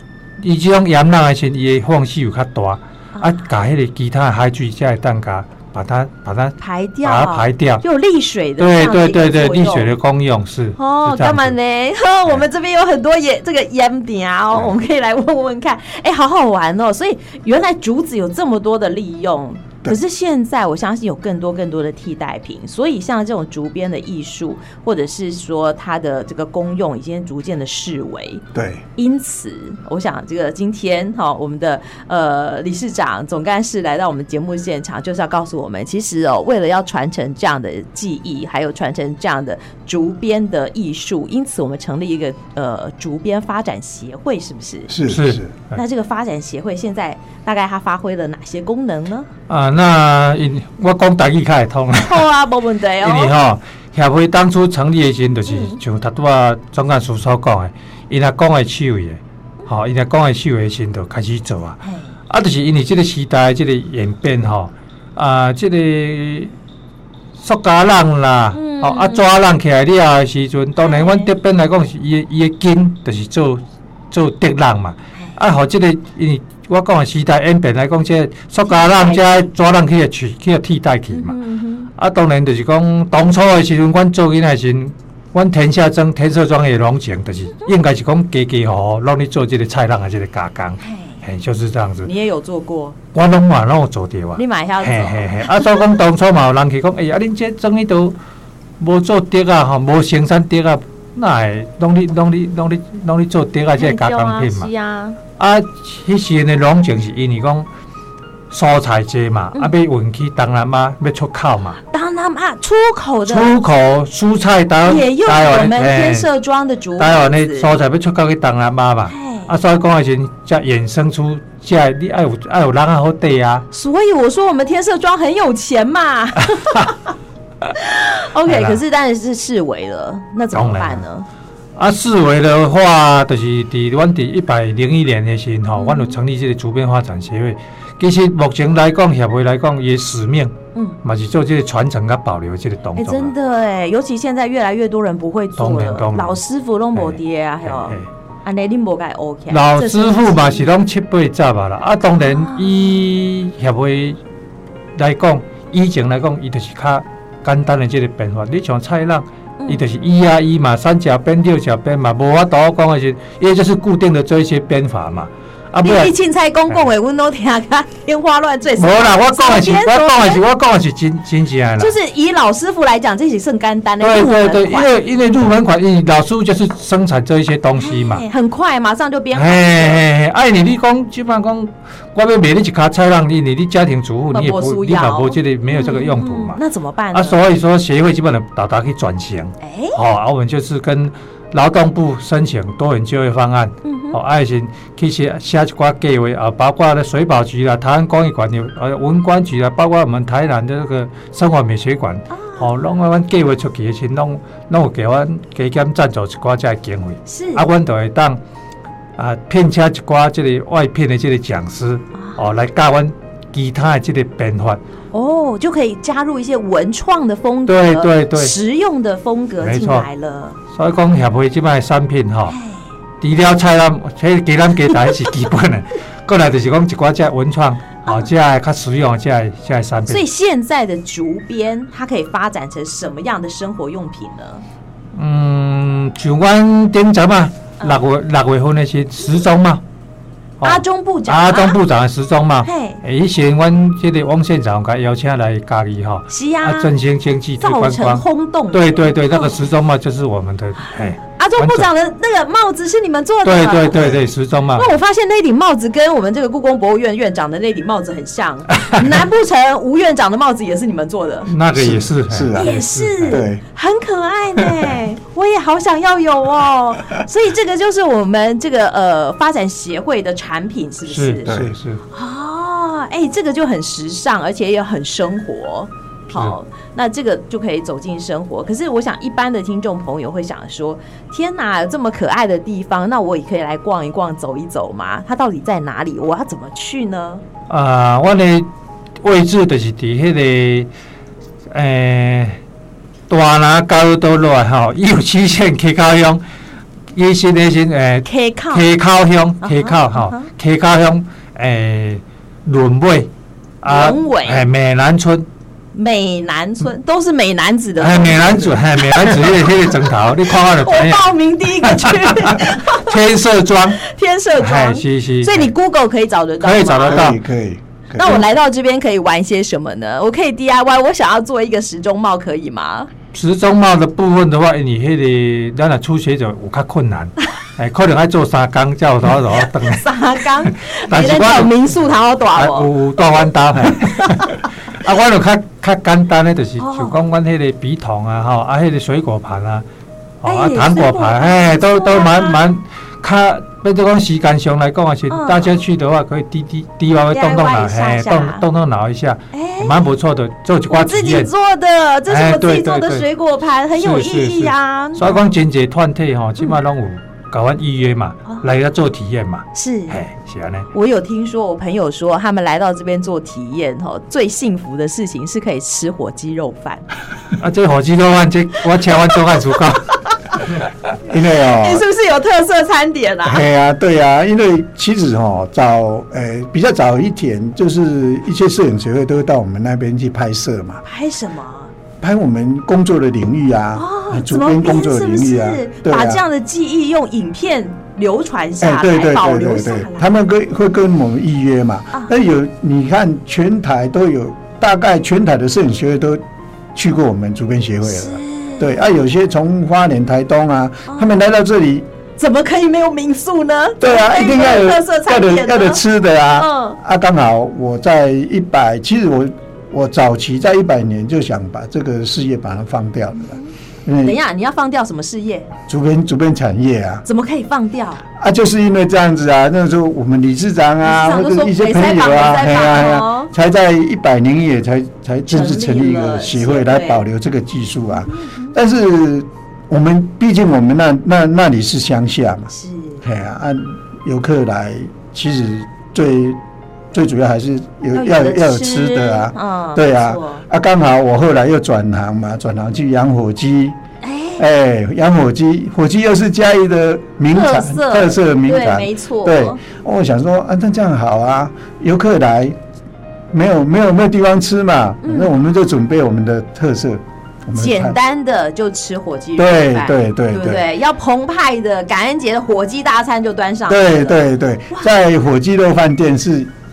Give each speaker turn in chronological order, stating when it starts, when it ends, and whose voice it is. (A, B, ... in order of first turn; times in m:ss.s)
0:00.4-0:07.8 A
0:03.2-0:03.5 B
0:06.6-0:09.9 B
0:08.6-0:11.6 A
0:10.8-0:28.4 B
0:28.5-0:28.8 C
0:29.0-0:44.9 B
0:44.9-0:45.5 C
0:45.1-0:45.8 A
0:45.7-0:49.3 B
0:49.5-0:52.3 A
0:51.9-0:53.3 B
0:53.0-1:06.5 A
0:55.5-0:55.8 B
1:01.8-1:02.1 B
1:07.4-1:21.4 A
1:08.5-1:09.2 B
1:10.8-1:11.3 B
1:18.6-1:19.5 B
1:21.1-1:21.9 B
1:22.0-1:32.1 A
1:32.0-1:33.0 B
1:33.1-1:38.2 A
1:34.4-1:35.8 B
1:38.8-1:44.7 A
1:43.8-1:45.2 B
1:45.4-1:47.7 A
1:48.5-1:51.8 A
1:51.9-1:53.5 B
1:53.3-1:56.3 A
1:54.8-1:57.7 B
1:57.0-2:03.6 A
1:59.1-1:59.5 B
2:03.7-2:07.0 B
2:06.5-2:06.9 A
2:07.7-2:11.2 B
2:08.4-2:08.8 A
2:10.5-2:11.0 A
2:11.8-2:23.3 A
2:15.8-2:16.2 B
2:23.0-2:30.7 B
2:25.6-2:26.4 A
2:26.9-2:28.1 A
2:29.5-2:34.2 A
2:32.2-2:33.0 B
2:35.0-2:46.1 A
2:45.8-2:50.4 B
2:48.8-2:51.9 A
2:51.8-2:54.9 B
2:54.0-2:58.2 A
2:57.8-3:00.0 B
2:59.3-3:06.6 A
3:04.3-3:07.4 B
3:07.1-3:28.4 A
3:09.6-3:10.0 B
3:13.8-3:14.2 B
3:22.3-3:22.7 B
3:27.2-3:27.6 B
3:29.2-3:34.8 A
3:35.1-3:40.6 B
3:37.7-3:38.5 A
3:39.6-3:40.1 A
3:40.7-3:42.6 A
3:42.5-3:42.8 B
3:43.2-3:50.2 A
3:50.1-3:54.6 B
3:55.1-3:59.8 A
4:00.6-4:11.9 A
4:00.6-4:01.8 B
4:02.6-4:03.0 B
4:06.3-4:06.9 B
4:07.6-4:09.6 B
4:11.2-4:14.2 B
4:13.4-4:14.9 A
4:14.8-4:21.5 B
4:21.5-4:23.4 A
4:21.8-4:22.8 C
4:22.5-4:31.5 B
4:23.3-4:23.6 C
4:31.1-4:32.0 A
4:31.5-4:31.8 C
4:32.1-4:47.4 B
4:47.7-4:48.7 A
4:49.2-4:50.9 A
4:51.7-4:52.6 A
4:53.3-4:56.4 A
4:57.1-5:03.3 A
4:58.2-4:58.8 B
4:59.6-5:00.5 B
5:03.8-5:05.5 A
5:03.8-5:04.6 B
5:05.9-5:09.4 B
5:08.0-5:14.0 A
5:10.6-5:13.2 B
5:14.0-5:17.3 B
5:14.6-5:15.7 A
5:16.6-5:17.4 A
5:17.1-5:18.4 C
5:18.1-5:23.1 B
5:23.3-5:30.1 A
5:29.8-5:32.9 B
5:31.1-5:31.9 A
5:32.5-5:39.8 A
5:36.8-5:37.2 B
5:40.4-5:51.5 A
5:40.4-5:42.7 B
5:45.3-5:45.7 B
5:47.3-5:48.6 B
5:49.5-5:50.0 B
5:50.9-5:55.5 B
5:52.3-5:53.3 A
5:53.9-6:00.9 A
5:59.7-6:00.2 B
6:00.9-6:07.1 B
6:07.6-6:10.2 A
6:11.2-6:12.0 C
6:11.5-6:13.6 B
6:13.4-6:21.0 C
6:21.0-6:21.9 B
6:22.2-6:26.4 C
6:23.9-6:30.3 B
6:28.8-6:36.4 C
6:36.9-6:42.1 C
6:38.0-6:39.1 B
6:41.1-6:41.3 B
6:42.4-6:46.0 B
6:44.0-6:54.4 C
6:46.6-6:47.0 B
6:54.2-6:55.7 B
6:55.9-6:57.2 C
6:57.2-6:58.2 B
6:58.4-7:12.7 C
7:01.0-7:03.5 B
7:05.5-7:07.2 B
7:08.3-7:08.7 B
7:12.7-7:13.2 B
7:13.2-7:16.6 C
7:17.1-7:24.0 C
7:18.1-7:20.6 B
7:24.2-7:24.6 B
7:24.6-7:32.8 C
7:27.5-7:29.8 B
7:33.5-7:38.2 C
7:35.2-7:35.5 B
7:37.7-7:45.1 B
7:39.6-7:40.8 C
7:43.9-7:46.7 C